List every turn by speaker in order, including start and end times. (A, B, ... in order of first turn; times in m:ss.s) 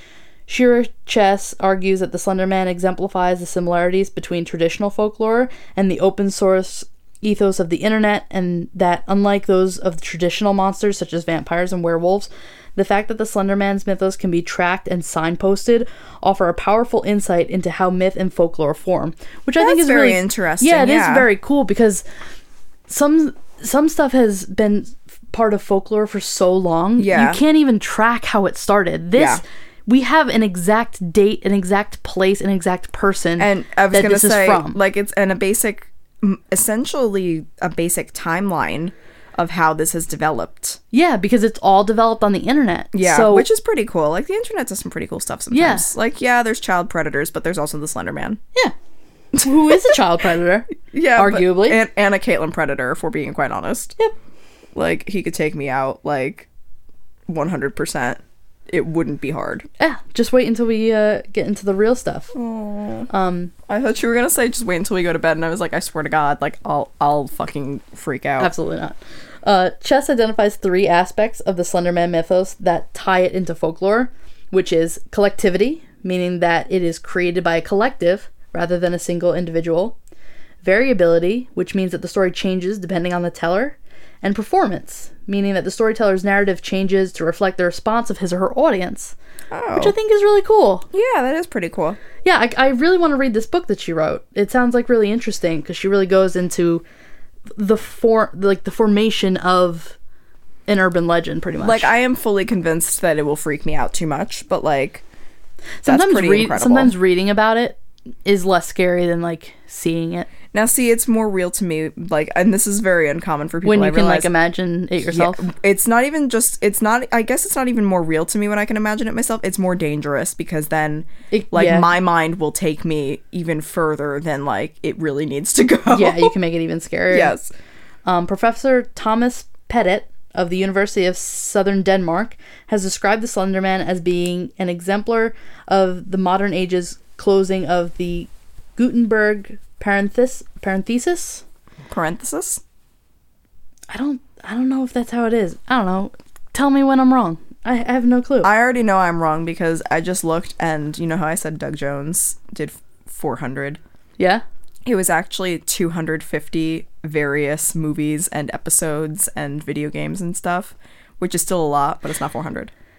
0:00.5-0:22.0 A
0:19.6-0:21.3 B
0:22.9-0:34.8 A
0:27.0-0:27.4 B
0:29.2-0:29.4 B
0:33.4-0:40.8 B
0:40.9-0:43.5 A
0:42.9-0:48.4 B
0:45.5-0:45.9 A
0:49.4-0:49.9 B
0:49.4-0:51.8 A
0:50.9-0:54.0 B
0:54.7-0:56.5 B
0:57.3-0:59.6 B
0:59.8-1:02.3 A
1:02.3-1:03.1 B
1:03.1-1:03.5 A
1:03.7-1:08.5 B
1:08.4-1:20.0 A
1:20.6-1:29.1 A
1:29.5-1:29.9 B
1:29.8-1:30.8 A
1:30.9-1:32.0 B
1:32.2-1:36.8 A
1:37.6-1:40.0 A
1:40.7-1:41.9 A
1:41.6-1:45.0 B
1:45.8-1:50.3 A
1:45.8-1:46.9 B
1:50.5-1:54.3 B
1:53.6-1:55.5 A
1:55.1-2:06.3 B
2:01.3-2:01.9 A
2:05.9-2:07.4 A
2:07.1-2:07.5 B
2:08.0-2:21.4 A
2:21.9-2:22.6 B
2:23.9-2:28.5 A
2:28.4-2:33.8 B
2:34.8-2:42.7 B